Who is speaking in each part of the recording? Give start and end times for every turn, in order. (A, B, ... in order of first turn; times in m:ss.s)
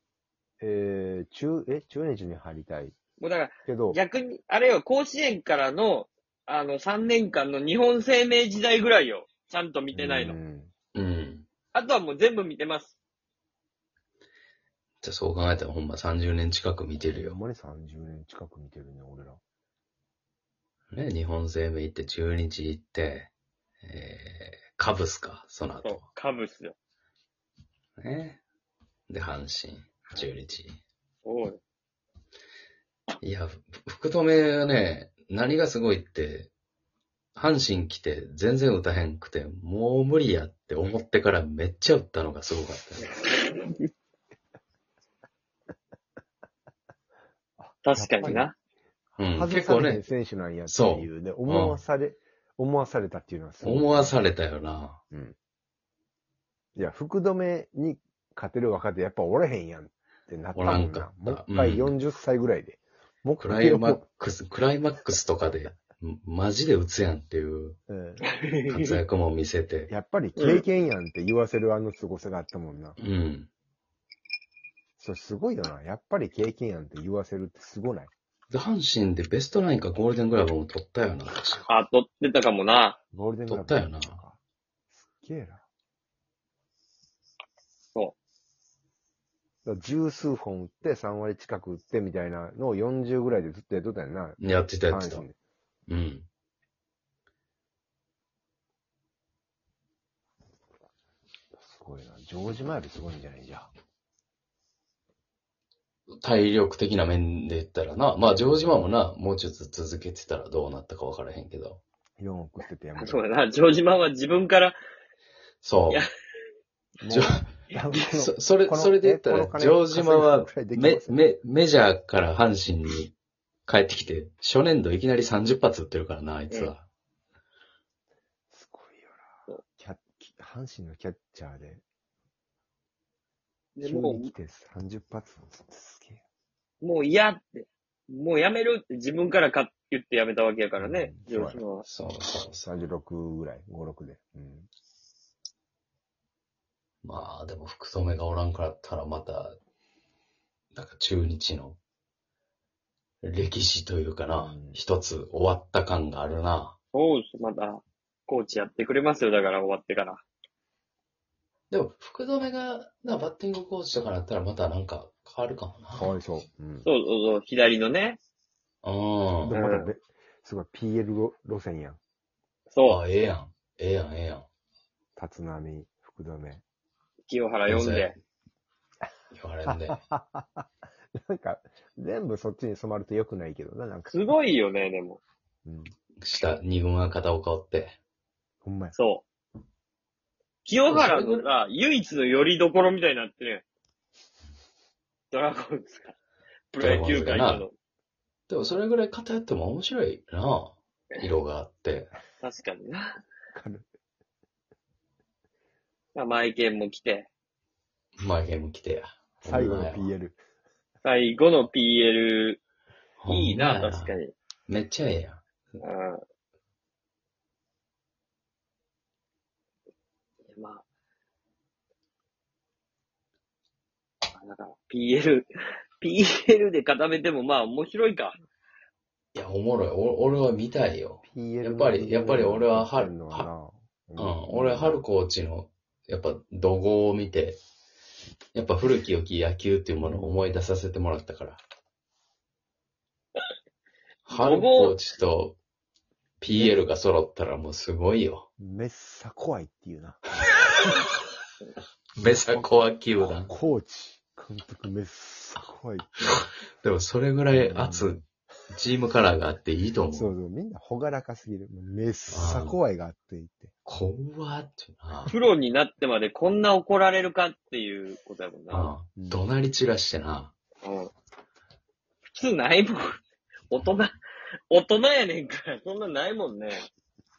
0:00.6-0:03.0 A
0:03.2-0:10.4 B
0:03.6-0:04.0 A
0:09.9-0:10.7 A
0:10.9-0:11.5 C
0:11.7-0:13.0 B
0:15.0-0:17.4 C
0:17.0-0:19.4 A
0:20.9-0:23.3 C
0:23.8-0:26.0 C
0:25.8-0:26.8 B
0:28.0-0:28.4 C
0:29.1-0:30.8 C
0:31.2-0:31.6 B
0:33.2-0:36.5 C
0:37.4-0:43.1 C
0:43.2-0:43.9 B
0:47.6-0:48.5 A
0:47.8-0:48.6 B
0:49.2-0:50.0 C
0:49.3-0:54.2 A
0:50.7-0:51.8 C
0:53.6-0:55.0 C
0:56.8-1:04.0 A
1:00.6-1:02.0 C
1:03.4-1:07.8 C
1:07.9-1:08.2 A
1:08.3-1:09.0 B
1:08.7-1:09.9 C
1:09.9-1:13.0 A
1:10.4-1:10.6 B
1:13.0-1:13.5 C
1:15.0-1:18.1 A
1:18.5-1:21.7 C
1:21.7-1:23.0 B
1:23.1-1:24.4 A
1:23.5-1:24.2 C
1:24.9-1:25.6 A
1:29.6-1:35.4 A
1:34.4-1:35.2 C
1:35.9-1:36.3 C
1:41.6-1:43.7 A
1:46.2-1:51.8 C
1:52.2-1:53.2 A
1:53.0-1:54.8 B
1:55.6-1:56.1 C
1:57.0-2:01.2 A
1:57.1-1:57.4 C
1:58.1-2:03.1 C
2:03.7-2:06.8 C
2:08.5-2:11.8 A
2:13.8-2:14.3 B
2:13.8-2:16.2 A
2:16.8-2:21.8 B
2:20.8-2:21.6 A
2:21.8-2:22.7 C
2:22.6-2:24.7 A
2:27.0-2:29.6 C
2:30.7-2:31.8 C
2:33.2-2:36.8 C
2:34.3-2:34.8 A
2:36.9-2:40.2 B
2:41.7-2:46.2 C
2:45.9-2:46.8 A
2:46.8-2:48.2 B
2:48.8-2:49.6 C
2:49.4-2:52.0 A
2:49.5-2:49.9 B
2:52.7-2:53.0 B
2:52.8-2:54.4 C
2:55.2-2:56.6 A
2:57.3-2:58.1 B
2:57.7-2:58.2 C
2:59.3-3:00.0 C
2:59.7-3:04.2 A
3:04.1-3:05.2 B
3:05.6-3:05.9 A
3:06.2-3:08.0 C
3:08.6-3:08.9 A
3:08.9-3:09.2 B
3:10.6-3:13.6 B
3:10.9-3:11.4 C
3:15.3-3:16.2 B
3:16.7-3:17.7 B
3:16.8-3:17.7 C
3:18.5-3:22.1 C
3:22.4-3:23.2 B
3:23.5-3:23.8 A
3:26.2-3:27.3 B
3:28.2-3:30.1 C
3:29.4-3:30.4 A
3:31.0-3:32.6 B
3:33.2-3:34.2 C
3:33.3-3:34.3 B
3:34.7-3:35.4 C
3:35.8-3:36.2 B
3:40.5-3:40.8 B
3:44.3-3:45.5 B
3:46.0-3:48.4 B
3:49.3-3:53.5 C
3:51.2-3:55.0 A
3:54.2-3:57.6 C
3:58.6-4:01.6 C
4:00.0-4:00.4 A
4:04.3-4:05.6 C
4:04.3-4:05.0 B
4:06.4-4:08.5 C
4:06.5-4:06.8 A
4:08.6-4:10.9 A
4:12.2-4:13.5 C
4:12.2-4:12.6 A
4:13.2-4:16.3 A
4:16.3-4:20.3 C
4:17.5-4:18.2 A
4:20.1-4:23.7 A
4:22.3-4:22.8 C
4:23.8-4:25.3 C
4:25.3-4:28.9 B
4:28.7-4:30.5 C
4:29.2-4:29.4 A
4:30.8-4:31.1 B
4:32.3-4:33.2 B
4:33.7-4:34.1 B
4:34.7-4:36.8 B